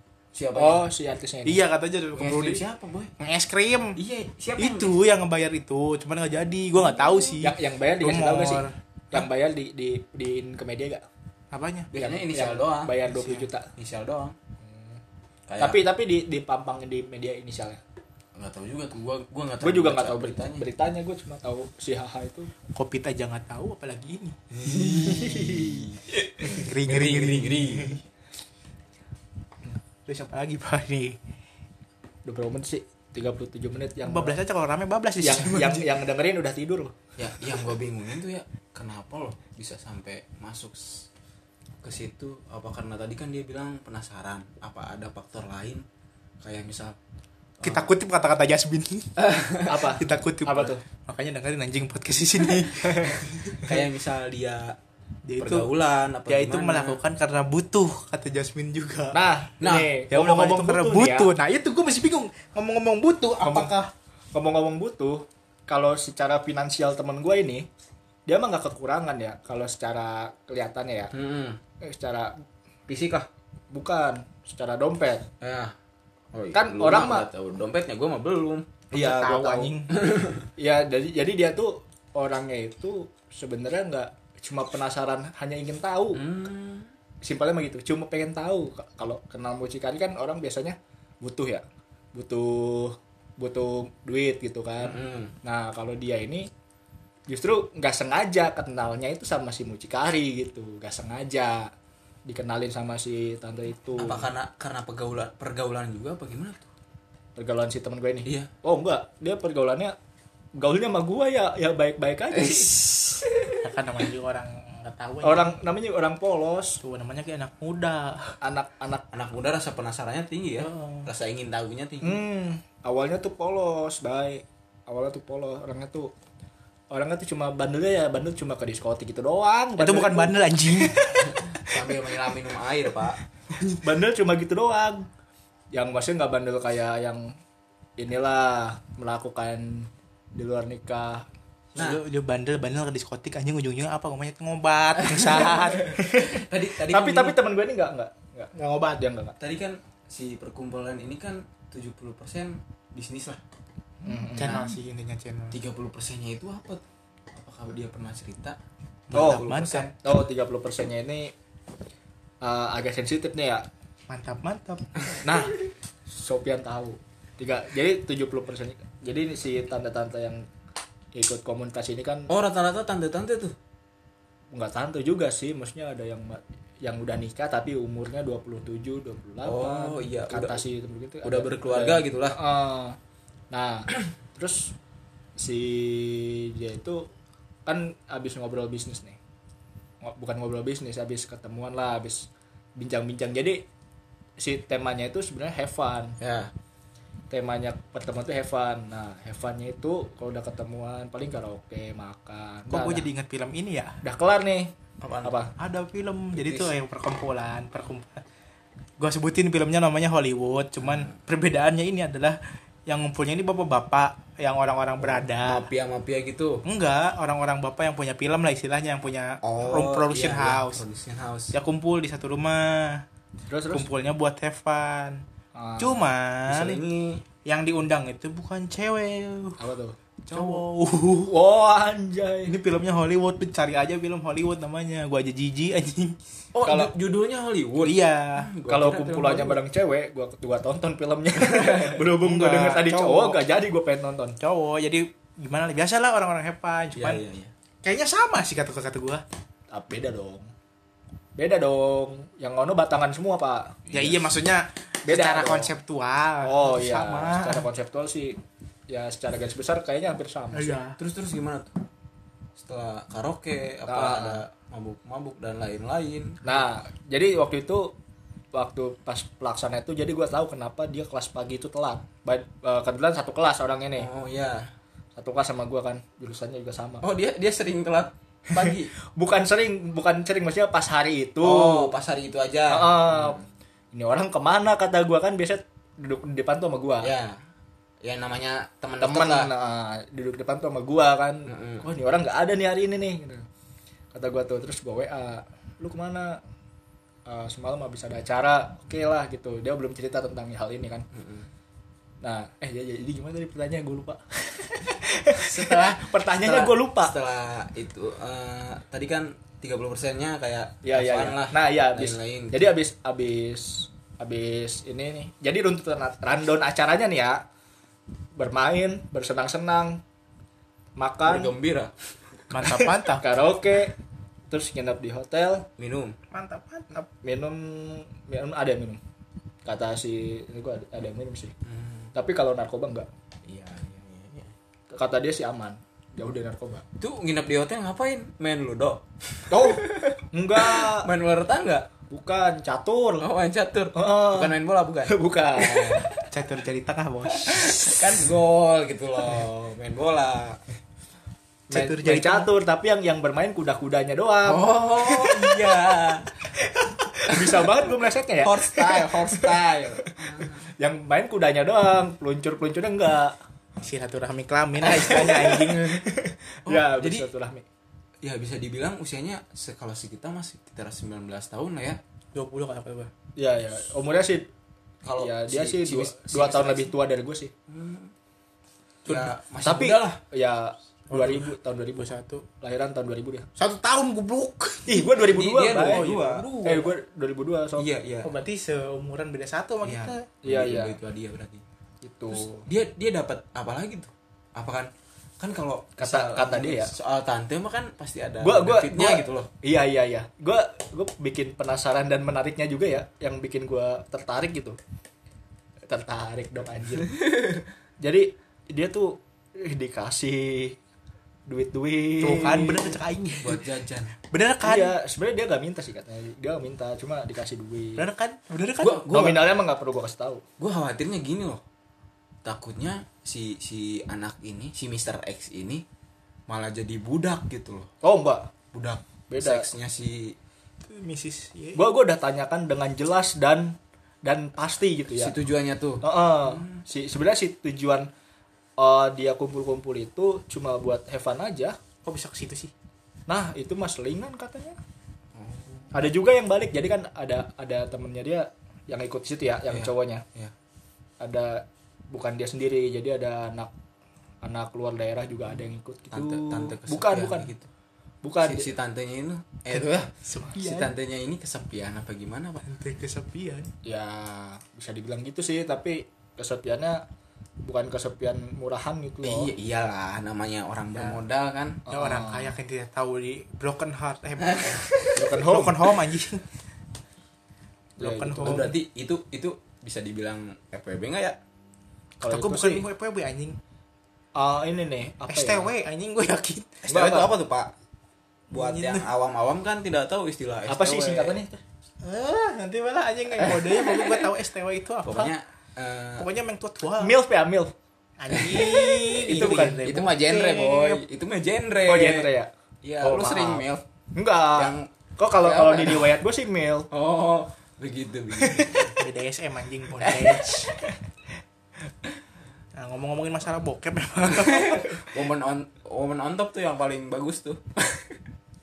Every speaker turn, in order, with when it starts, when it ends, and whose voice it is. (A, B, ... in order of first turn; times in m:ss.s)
0:00.3-0:00.9 A
0:00.6-0:01.6 B
0:01.5-0:02.6 C
0:02.2-0:03.1 A
0:03.2-0:04.0 C
0:04.0-0:05.0 A
0:04.6-0:09.3 C
0:07.4-0:11.0 B
0:11.5-0:11.9 C
0:11.9-0:13.0 A
0:12.0-0:13.7 B
0:13.1-0:13.4 C
0:13.8-0:14.4 A
0:14.6-0:15.0 B
0:15.5-0:15.8 A
0:15.6-0:17.8 B
0:18.4-0:20.6 A
0:19.6-0:22.5 B
0:22.7-0:24.4 C
0:24.5-0:28.0 A
0:24.8-0:25.8 B
0:26.5-0:28.0 C
0:30.1-0:31.2 C
0:32.2-0:34.4 B
0:34.0-0:35.9 C
0:35.2-0:37.0 B
0:37.2-0:41.1 A
0:41.8-0:45.8 A
0:46.4-0:47.0 A
0:47.6-0:47.9 A
0:47.6-0:49.2 C
0:49.2-0:49.9 A
0:49.7-0:50.8 B
0:50.0-0:53.6 C
0:53.6-0:54.8 A
0:55.2-0:55.7 C
0:55.4-0:57.0 A
0:56.3-0:59.2 C
0:59.1-1:01.3 B
0:59.6-0:59.9 A
1:00.1-1:03.9 C
1:03.4-1:03.7 B
1:04.3-1:07.7 B
1:08.3-1:11.1 B
1:11.1-1:11.6 A
1:11.8-1:12.4 B
1:12.9-1:13.2 A
1:13.7-1:15.3 B
1:15.4-1:15.8 A
1:16.3-1:18.8 A
1:16.5-1:17.3 B
1:18.9-1:19.7 B
1:18.9-1:19.9 C
1:19.9-1:20.4 A
1:20.6-1:26.2 B
1:26.1-1:26.9 A
1:27.2-1:36.5 B
1:34.8-1:35.4 A
1:37.3-1:41.7 B
1:42.3-1:44.3 B
1:44.0-1:46.7 A
1:47.4-1:50.0 B
1:48.2-1:48.5 A
1:50.6-1:52.8 B
1:52.3-1:53.6 A
1:53.6-1:55.6 C
1:55.2-1:56.8 B
1:56.8-1:58.4 C
1:58.4-1:59.0 B
1:59.1-2:02.2 A
2:00.6-2:01.1 C
2:02.0-2:06.1 B
2:06.9-2:11.0 B
2:09.8-2:11.8 C
2:11.2-2:13.2 A
2:13.8-2:15.0 B
2:15.7-2:17.3 B
2:18.0-2:21.2 B
2:21.8-2:22.0 A
2:21.8-2:26.0 C
2:25.0-2:27.4 A
2:25.9-2:29.4 B
2:28.6-2:28.8 C
2:29.4-2:33.4 A
2:34.0-2:34.7 B
2:34.4-2:35.6 C
2:35.5-2:38.6 A
2:39.1-2:39.9 C
2:39.1-2:39.9 A
2:39.1-2:41.3 B
2:42.4-2:43.7 B
2:44.1-2:45.3 C
2:45.2-2:45.6 B
2:46.1-2:50.4 B
2:51.2-2:52.3 B
2:52.3-2:53.6 A
2:54.5-3:03.0 B
2:59.4-3:00.6 A
3:01.2-3:02.4 A
3:03.5-3:04.8 B
3:05.4-3:07.1 B
3:07.7-3:09.2 B
3:10.0-3:13.6 B
3:14.4-3:16.2 B
3:16.2-3:16.5 A
3:17.3-3:23.1 B
3:22.7-3:24.0 C
3:24.0-3:25.5 B
3:25.0-3:25.4 A
3:25.6-3:28.2 C
3:26.3-3:26.7 A
3:29.0-3:35.7 C
3:30.8-3:31.1 A
3:35.0-3:36.6 A
3:36.7-3:40.8 C
3:39.4-3:41.6 A
3:41.5-3:43.0 C
3:43.5-3:43.9 B
3:43.7-3:45.2 C
3:45.6-3:46.1 B
3:45.8-3:46.8 C
3:46.5-3:47.2 A
3:47.4-3:49.6 C
3:49.6-3:50.0 B
3:50.3-3:50.7 A
3:50.3-3:51.3 C
3:51.3-3:52.5 B
3:52.5-3:56.2 C
3:56.5-3:59.6 A
3:56.6-3:56.9 B
3:57.8-3:58.5 C
3:58.7-4:04.4 B
4:01.4-4:02.0 A
4:02.2-4:03.4 C
4:04.4-4:07.2 C
4:07.0-4:07.5 A
4:07.8-4:09.2 C
4:09.7-4:10.5 B
4:11.4-4:13.8 B
4:13.9-4:14.2 A
4:13.9-4:17.6 C
4:15.1-4:15.7 B
4:16.4-4:18.4 B
4:18.9-4:20.8 B
4:20.5-4:21.0 C
4:21.0-4:21.8 A
4:22.6-4:26.4 A
4:23.9-4:24.4 B
4:26.4-4:28.0 B
4:28.5-4:34.1 B
4:34.0-4:34.7 A
4:35.2-4:37.0 B
4:37.0-4:38.9 A
4:38.5-4:41.9 B
4:41.4-4:43.4 A
4:42.7-4:43.4 B
4:43.9-4:47.1 B
4:47.0-4:47.4 A
4:48.0-4:49.5 A
4:49.0-4:53.5 B
4:51.5-4:51.9 A
4:54.1-4:56.4 B
4:57.3-5:01.1 B
5:01.1-5:01.5 A
5:02.2-5:07.1 B
5:05.4-5:12.7 A
5:10.8-5:17.4 B
5:18.4-5:20.0 B
5:21.0-5:21.5 B
5:21.2-5:22.4 A
5:22.5-5:23.2 C
5:22.7-5:24.0 B
5:24.5-5:25.7 B
5:25.8-5:26.2 A
5:26.3-5:27.1 C
5:27.2-5:29.0 B
5:29.7-5:31.5 B
5:31.6-5:32.1 A
5:32.2-5:33.1 B
5:33.5-5:34.5 A
5:34.9-5:36.8 B
5:37.0-5:41.9 A
5:39.5-5:41.1 B
5:42.1-5:43.3 B
5:43.2-5:46.0 A
5:44.0-5:46.2 B
5:46.3-5:48.1 C
5:47.3-5:50.6 A
5:51.7-5:52.5 C
5:51.7-5:55.6 B
5:54.4-5:56.3 A
5:56.7-6:03.4 B
5:57.3-5:57.7 A
5:58.4-6:00.7 A
6:03.8-6:06.0 C
6:04.9-6:07.6 B
6:06.6-6:07.3 A
6:08.2-6:12.0 A
6:12.3-6:13.1 C
6:13.4-6:14.5 B
6:15.0-6:16.9 A
6:15.2-6:17.5 B
6:17.7-6:18.1 A
6:19.1-6:20.2 A
6:19.6-6:23.5 B
6:21.1-6:22.4 C
6:23.6-6:25.1 C
6:24.9-6:26.0 B
6:25.2-6:26.5 A
6:25.8-6:26.9 C
6:26.6-6:27.9 B
6:27.8-6:28.3 A
6:28.2-6:30.3 C
6:29.8-6:31.6 A
6:30.4-6:31.0 B
6:32.0-6:32.7 B
6:32.6-6:39.5 A
6:36.0-6:36.9 B
6:38.4-6:44.8 B
6:45.9-6:47.1 B
6:47.2-6:47.6 A
6:48.0-6:50.8 B
6:51.5-6:53.0 B
6:52.2-6:53.6 C
6:53.4-6:54.2 A
6:54.3-6:55.0 C
6:54.6-6:58.1 B
6:58.0-6:59.2 C
6:58.8-6:59.5 A
6:59.1-7:00.4 B
7:00.6-7:01.6 A
7:02.4-7:05.8 A
7:06.5-7:07.9 A
7:08.0-7:08.5 B
7:08.7-7:10.4 A
7:09.3-7:09.7 B
7:10.9-7:11.8 C
7:11.8-7:15.4 B
7:15.1-7:16.8 A
7:16.0-7:18.1 B
7:18.8-7:21.8 B
7:22.0-7:22.7 C
7:23.3-7:24.8 B
7:25.4-7:25.9 A
7:25.9-7:30.2 B
7:29.7-7:30.5 A
7:31.2-7:33.7 B
7:34.4-7:37.5 B
7:36.1-7:37.7 A
7:38.2-7:38.7 B
7:38.4-7:42.6 A
7:39.7-7:40.9 C
7:42.6-7:43.7 C
7:43.8-7:47.0 B
7:47.6-7:49.5 B
7:49.2-7:51.8 A
7:51.9-7:52.6 B
7:51.9-7:54.8 C
7:54.4-7:55.3 A
7:55.2-7:55.8 B
7:55.3-7:56.4 C
7:58.0-7:58.7 B
7:58.0-7:58.7 C
7:58.4-8:01.4 A
8:02.2-8:02.9 B
8:02.3-8:03.6 C
8:04.4-8:05.7 B
8:05.3-8:07.1 C
8:06.9-8:07.7 A
8:06.9-8:07.3 B
8:08.5-8:11.4 A
8:08.5-8:09.1 C
8:10.7-8:11.6 B
8:12.0-8:15.3 C
8:13.4-8:14.3 A
8:15.0-8:16.3 A
8:16.2-8:17.1 C
8:17.0-8:17.7 B
8:18.2-8:21.0 C
8:18.3-8:22.3 A
8:19.2-8:19.8 B
8:21.9-8:22.5 B
8:22.8-8:23.8 A
8:23.0-8:23.6 B
8:24.2-8:26.9 B
8:24.6-8:24.9 A
8:25.4-8:26.1 A
8:26.9-8:29.0 A
8:28.4-8:28.9 B
8:29.0-8:30.7 C
8:30.0-8:30.3 A
8:32.8-8:35.1 C
8:34.4-8:38.2 A